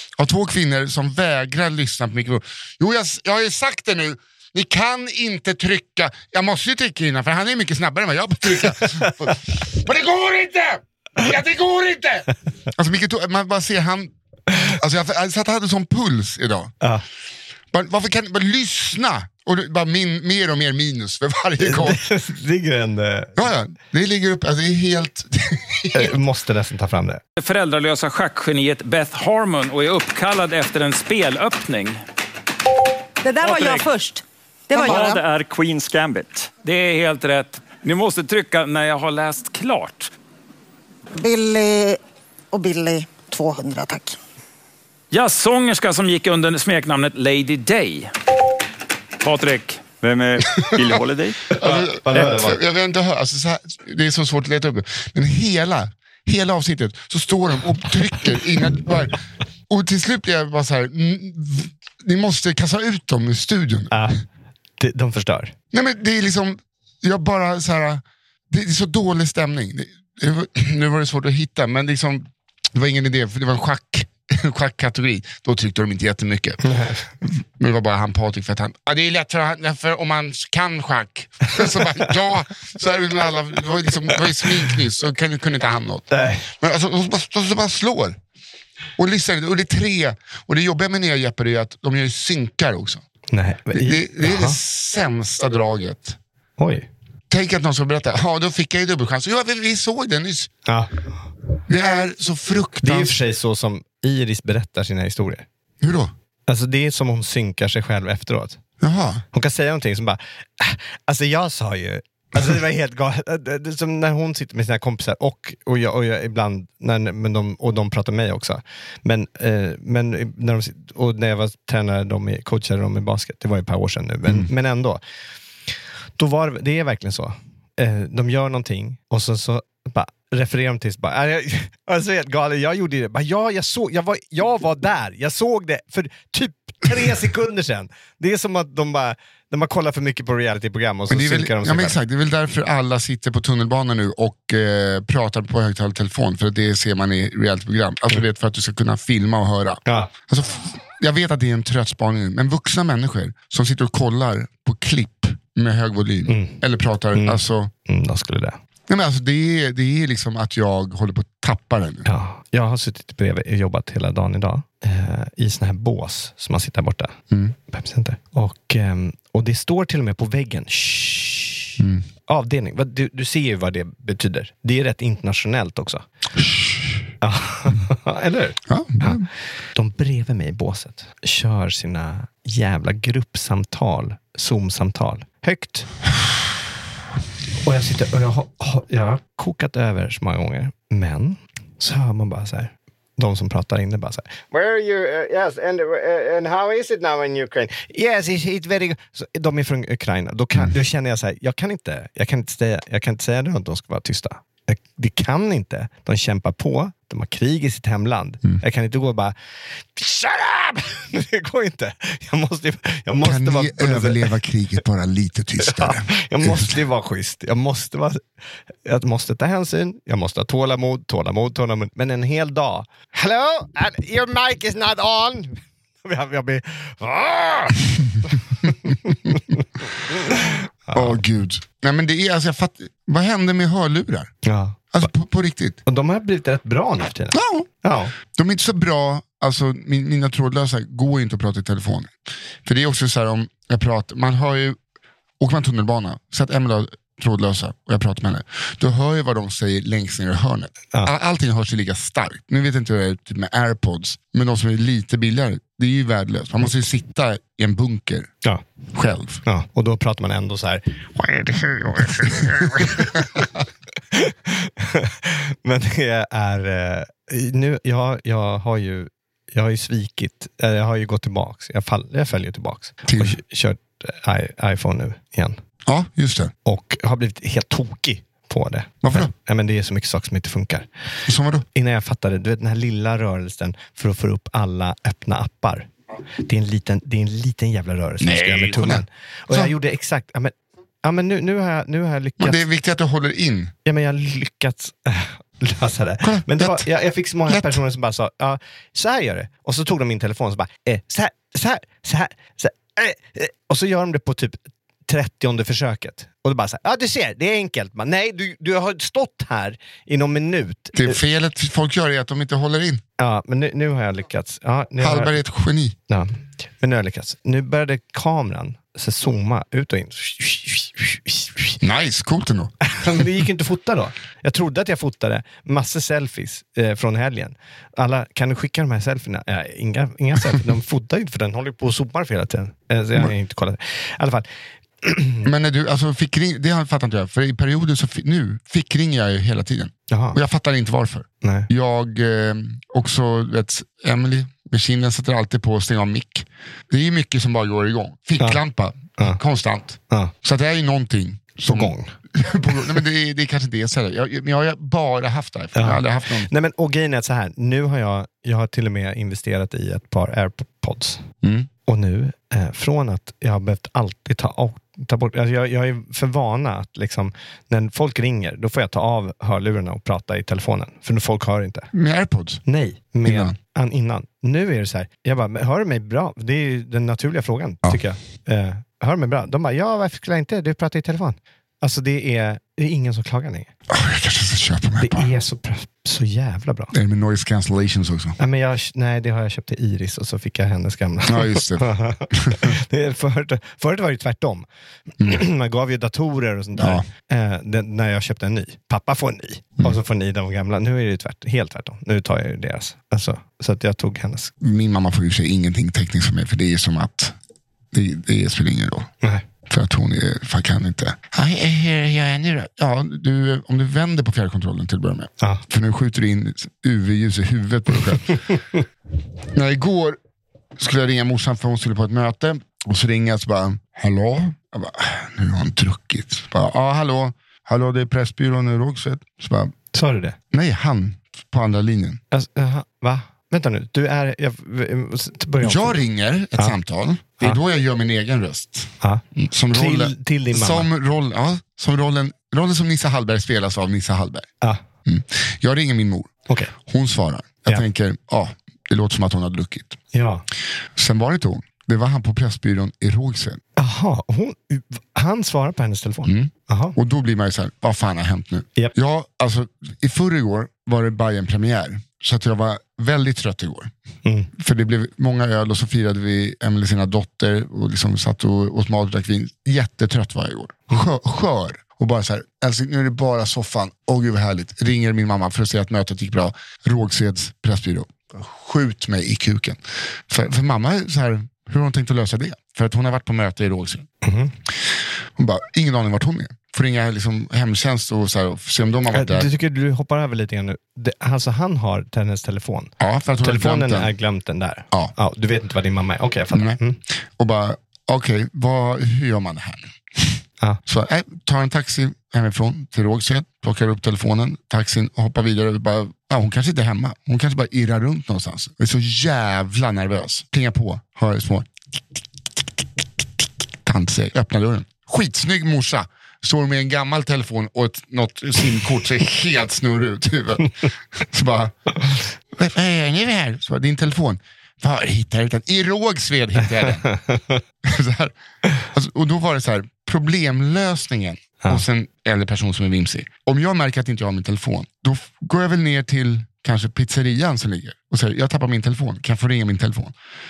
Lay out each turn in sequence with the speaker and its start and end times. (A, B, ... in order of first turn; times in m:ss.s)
0:00.2-0:16.7 A
0:08.8-0:09.1 B
0:17.7-0:22.0 A
0:21.6-0:23.5 B
0:23.4-0:26.1 A
0:25.9-0:27.2 B
0:27.4-0:32.0 C
0:33.3-0:34.1 C
0:33.5-0:33.8 D
0:34.7-0:40.1 C
0:34.8-0:35.1 D
0:41.1-0:42.0 D
0:42.5-0:44.2 D
0:45.1-0:48.1 C
0:49.2-0:51.4 C
0:50.5-0:51.0 A
0:51.5-0:52.6 B
0:51.6-0:59.2 A
0:59.7-1:03.9 A
1:03.9-1:04.2 B
1:04.8-1:05.5 B
1:05.7-1:16.6 A
1:16.6-1:17.1 B
1:17.2-1:28.2 A
1:26.1-1:26.5 B
1:29.0-1:33.0 A
1:33.3-1:34.6 B
1:33.7-1:36.2 A
1:36.6-1:36.9 B
1:37.3-1:40.5 A
1:40.6-1:41.1 B
1:41.7-1:43.2 A
1:42.8-1:45.4 B
1:45.8-1:46.1 A
1:46.5-1:48.6 B
1:48.8-1:49.2 A
1:49.3-2:05.0 B
2:04.2-2:04.5 A
2:06.2-2:22.0 B
2:21.1-2:37.7 A
2:29.8-2:30.1 B
2:36.3-2:36.6 B
2:37.1-2:38.6 B
2:38.9-2:42.1 A
2:42.0-2:47.1 B
2:47.7-2:51.7 B
2:51.8-2:52.0 A
2:52.3-2:56.0 B
2:56.4-2:57.0 A
2:57.2-3:06.0 B
2:58.7-2:59.3 A
3:07.6-3:34.3 B
3:33.2-3:36.8 A
3:35.6-3:38.2 B
3:38.8-3:51.2 B
3:50.9-3:54.4 A
3:54.4-3:55.1 B
3:54.9-3:55.8 A
3:55.8-3:58.1 B
3:57.3-3:57.7 A
3:58.2-4:02.1 A
4:02.6-4:04.8 A
4:05.4-4:18.3 A
4:18.9-4:19.4 A
4:19.4-4:23.4 B
4:22.6-4:23.5 A
4:24.1-4:35.6 B
4:33.0-4:33.4 A
4:35.8-4:36.5 A
4:36.6-4:41.2 B
4:39.0-4:39.3 A
4:41.2-4:41.6 A
4:41.7-4:45.9 B
4:46.4-4:52.6 B
4:48.2-4:49.7 A
4:52.4-4:53.7 A
4:53.8-5:11.2 B
4:56.2-4:56.9 A
4:57.4-4:57.8 A
5:10.9-5:13.0 A
5:13.2-5:15.4 B
5:15.0-5:16.0 A
5:16.1-5:21.8 B
5:21.8-5:23.3 A
5:22.8-5:34.4 B
5:35.0-5:35.5 B
5:35.4-5:56.5 A
5:40.1-5:40.4 B
5:41.4-5:41.7 B
5:51.6-5:52.1 B
5:55.7-6:01.3 B
6:01.4-6:01.7 A
6:01.9-6:11.9 B
6:11.9-6:12.6 A
6:12.6-6:23.7 B
6:13.2-6:13.6 A
6:23.9-6:25.3 A
6:25.0-6:26.9 B
6:26.9-6:28.4 A
6:28.4-6:34.6 B
6:31.3-6:32.7 A
6:35.2-6:44.5 B
6:36.8-6:37.1 A
6:44.6-6:47.4 A
6:47.9-6:49.1 A
6:49.6-6:58.4 A
6:58.4-6:58.8 B
6:59.5-7:00.2 A
7:00.8-7:09.8 A
7:09.9-7:10.4 B
7:10.5-7:12.2 A
7:12.3-7:16.0 B
7:15.6-7:24.5 A
7:19.0-7:20.9 B
7:25.0-7:30.0 A
7:30.1-7:30.4 B
7:31.0-7:33.6 A
7:33.8-7:37.0 B
7:36.2-7:43.9 A
7:44.2-7:44.5 B
7:44.5-8:04.1 A
8:04.2-8:04.5 B
8:04.7-8:09.5 A
8:09.1-8:17.0 B
8:13.0-8:14.1 A
8:16.5-8:31.7 A
8:33.4-8:47.0 A
8:46.8-8:47.6 B
8:47.8-8:48.3 A
8:48.9-9:00.1 A